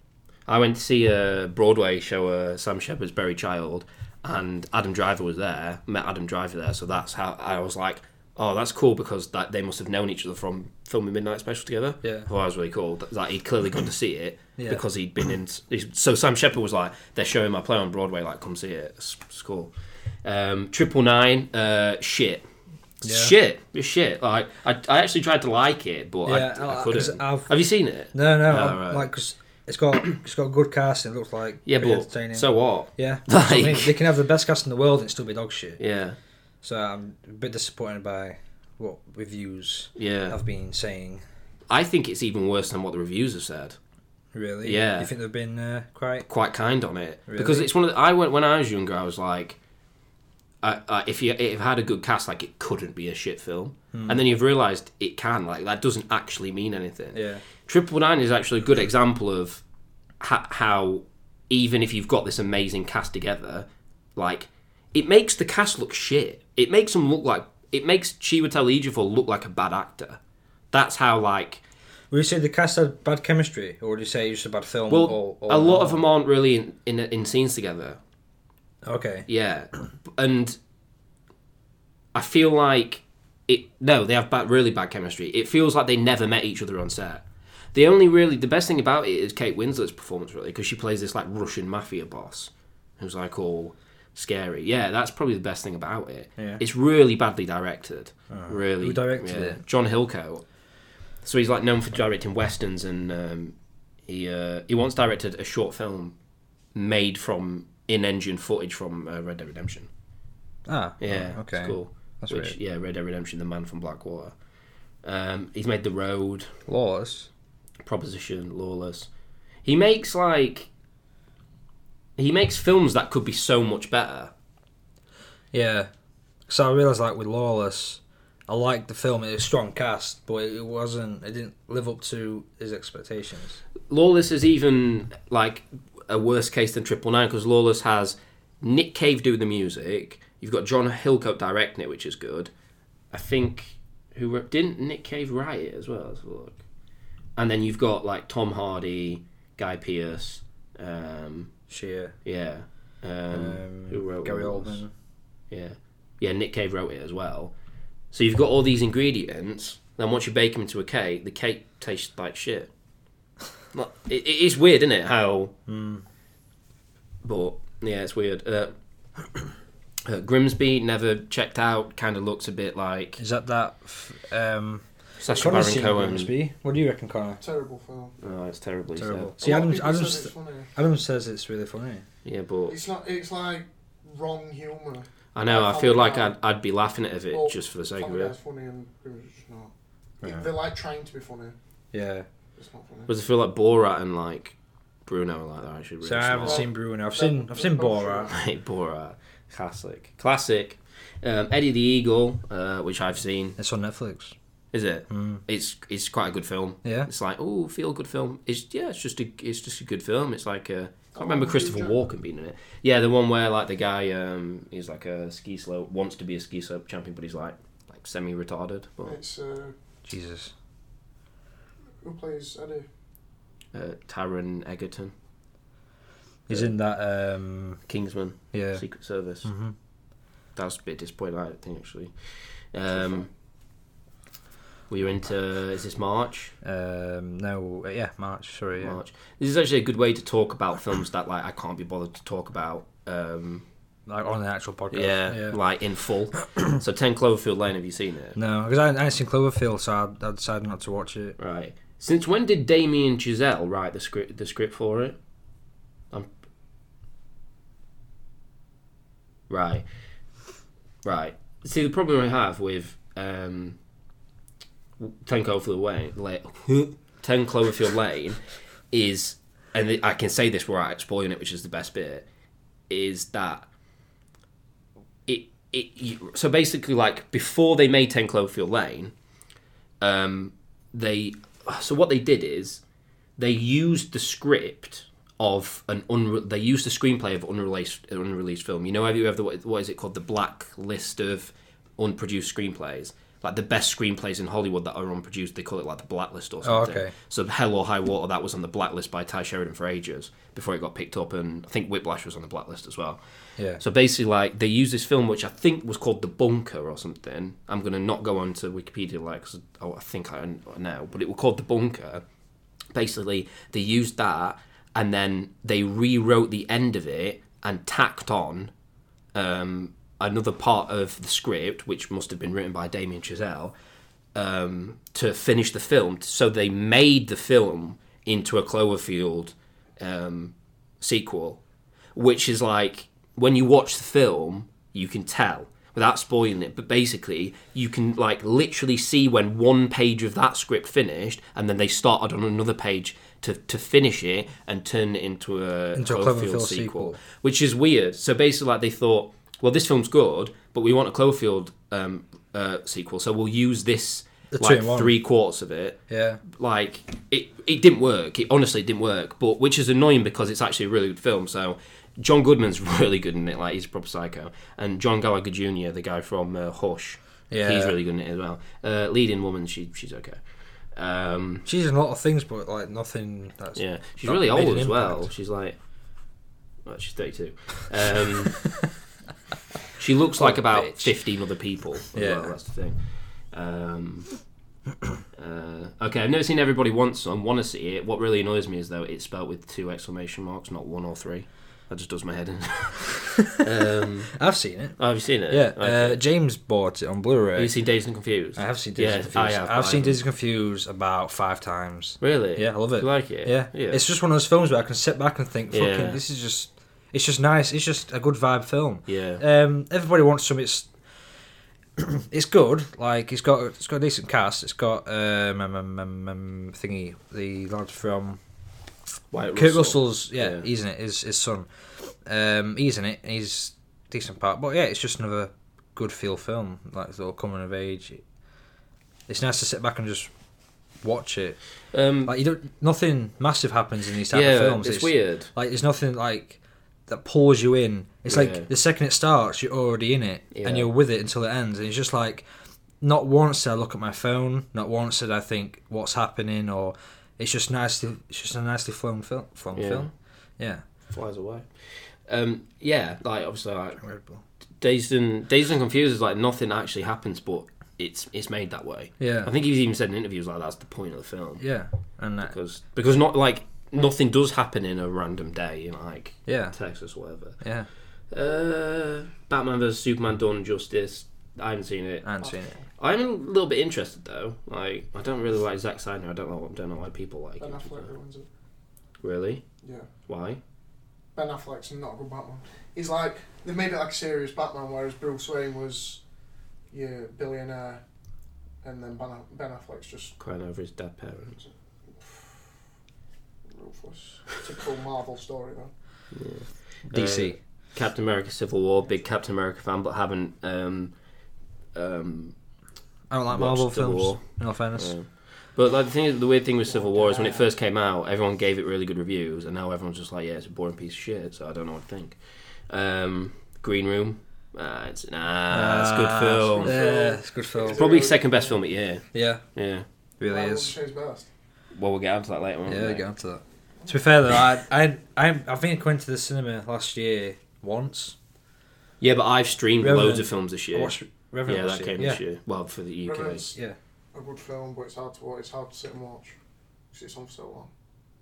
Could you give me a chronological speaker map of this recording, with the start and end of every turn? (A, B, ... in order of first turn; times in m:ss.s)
0:00.5-0:19.7 A
0:12.0-0:12.3 B
0:14.6-0:14.8 B
0:20.2-0:22.5 A
0:23.0-0:29.1 A
0:23.0-0:23.3 B
0:26.3-0:27.5 B
0:28.1-0:35.8 B
0:31.7-0:34.0 A
0:35.8-0:36.2 A
0:36.6-0:41.2 B
0:40.0-0:40.4 A
0:41.7-0:43.8 A
0:44.3-0:46.3 B
0:44.6-0:45.1 A
0:46.3-0:49.6 A
0:47.3-0:47.7 B
0:50.6-0:59.6 A
0:53.9-0:54.2 B
0:57.1-0:57.4 B
1:00.2-1:10.2 A
1:10.7-1:11.6 A
1:12.1-1:16.0 B
1:14.9-1:18.0 A
1:18.8-1:19.3 B
1:19.3-1:20.6 A
1:22.1-1:40.4 A
1:38.3-1:39.6 B
1:41.2-1:43.6 A
1:44.1-1:46.2 A
1:46.8-1:49.9 A
1:50.7-1:52.6 B
1:51.0-1:54.4 A
1:55.0-1:56.5 A
1:56.7-1:57.3 B
1:57.9-1:59.1 A
1:59.6-2:00.7 A
2:02.2-2:04.3 A
2:05.5-2:05.9 B
2:06.5-2:13.6 B
2:13.9-2:22.5 A
2:23.1-2:26.6 A
2:27.4-2:31.5 A
2:31.7-2:32.2 B
2:32.2-2:34.8 A
2:33.3-2:34.9 B
2:35.5-2:37.5 A
2:38.1-2:42.7 A
2:43.7-2:45.5 A
2:45.7-2:46.0 B
2:47.2-2:48.7 A
2:50.0-2:53.2 A
2:53.2-2:57.4 B
2:55.2-2:56.3 A
2:57.4-2:58.2 C
2:58.2-2:59.3 A
2:59.0-3:02.0 B
2:59.4-3:00.7 C
3:02.2-3:02.8 A
3:02.7-3:06.4 C
3:05.4-3:08.3 A
3:07.3-3:11.6 C
3:10.2-3:10.5 B
3:11.9-3:12.3 B
3:12.6-3:13.1 C
3:13.1-3:14.6 A
3:15.1-3:16.7 A
3:16.0-3:18.3 B
3:16.4-3:18.4 C
3:18.3-3:23.6 A
3:23.6-3:24.4 B
3:24.7-3:39.2 A
3:25.1-3:25.4 B
3:26.8-3:27.1 B
3:31.2-3:32.0 C
3:39.0-3:39.8 C
3:40.1-3:40.5 B
3:42.0-3:42.9 C
3:43.7-3:45.1 A
3:46.5-3:47.8 B
3:47.9-3:49.5 A
3:48.5-3:48.8 B
3:49.4-3:49.8 B
3:50.6-3:53.3 A
3:54.9-3:56.6 A
3:56.6-3:59.0 B
3:58.8-4:03.6 A
4:04.1-4:05.6 B
4:04.9-4:08.4 A
4:08.4-4:11.4 B
4:11.4-4:15.2 A
4:19.5-4:19.8 A
4:21.0-4:23.8 A
4:25.0-4:28.4 A
4:28.9-4:32.3 A
4:32.9-4:33.7 A
4:35.3-4:39.1 A
4:40.0-4:42.8 A
4:43.4-5:03.2 A
4:56.6-4:57.1 B
5:03.8-5:12.2 A
5:12.9-5:18.7 A
5:19.4-5:23.7 A
5:24.4-5:31.6 A
5:32.2-6:10.4 A
5:46.0-5:47.2 B
5:54.5-5:55.2 B
5:56.1-5:56.4 B
6:07.5-6:08.0 B
6:10.9-6:11.7 A
6:11.6-6:15.3 B
6:13.8-6:15.8 A
6:16.8-6:18.7 A
6:20.0-6:23.0 A
6:20.4-6:21.1 B
6:22.1-6:22.5 B
6:23.5-6:24.3 A
6:25.4-6:34.4 A
6:34.3-6:37.7 B
6:35.0-6:36.2 A
6:37.6-6:40.2 A
6:38.6-6:50.9 B
6:42.2-6:44.0 A
6:45.7-6:46.2 A
6:49.1-6:49.4 A
6:52.0-6:58.4 B
6:59.3-7:00.7 A
6:59.6-7:08.2 B
7:09.3-7:10.3 B
7:11.0-7:11.6 B
7:11.9-7:12.3 A
7:12.3-7:22.5 B
7:14.3-7:15.5 A
7:18.3-7:18.7 A
7:20.5-7:20.9 A
7:23.0-7:30.8 B
7:29.7-7:30.1 A
7:31.1-7:34.0 A
7:34.0-7:34.4 B
7:34.8-7:41.6 A
7:39.2-7:39.5 B
7:41.6-7:42.6 B
7:42.4-7:47.6 A
7:46.5-7:46.8 B
7:47.6-7:47.9 B
7:48.3-7:52.3 A
7:52.2-7:52.7 B
7:53.0-7:58.1 A
7:57.6-7:58.5 C
7:59.2-7:59.6 A
7:59.8-8:00.1 C
8:00.3-8:00.6 A
8:01.4-8:06.2 C
8:06.9-8:08.0 C
8:08.8-8:10.4 C
8:10.4-8:11.6 A
8:11.6-8:12.6 C
8:13.7-8:15.9 C
8:16.3-8:21.2 A
8:17.1-8:17.6 B
8:22.0-8:22.6 A
8:23.3-8:25.2 B
8:23.5-8:37.0 A
8:26.9-8:27.7 C
8:35.7-8:38.1 B
8:36.7-8:38.8 C
8:37.9-8:40.1 A
8:39.3-8:39.6 B
8:40.4-8:41.0 B
8:40.4-8:41.5 C
8:42.0-8:43.3 A
8:42.9-8:48.4 B
8:49.2-8:53.8 A
8:50.0-8:52.4 B
8:53.2-8:53.8 C
8:54.3-8:56.6 C
8:57.1-8:57.9 C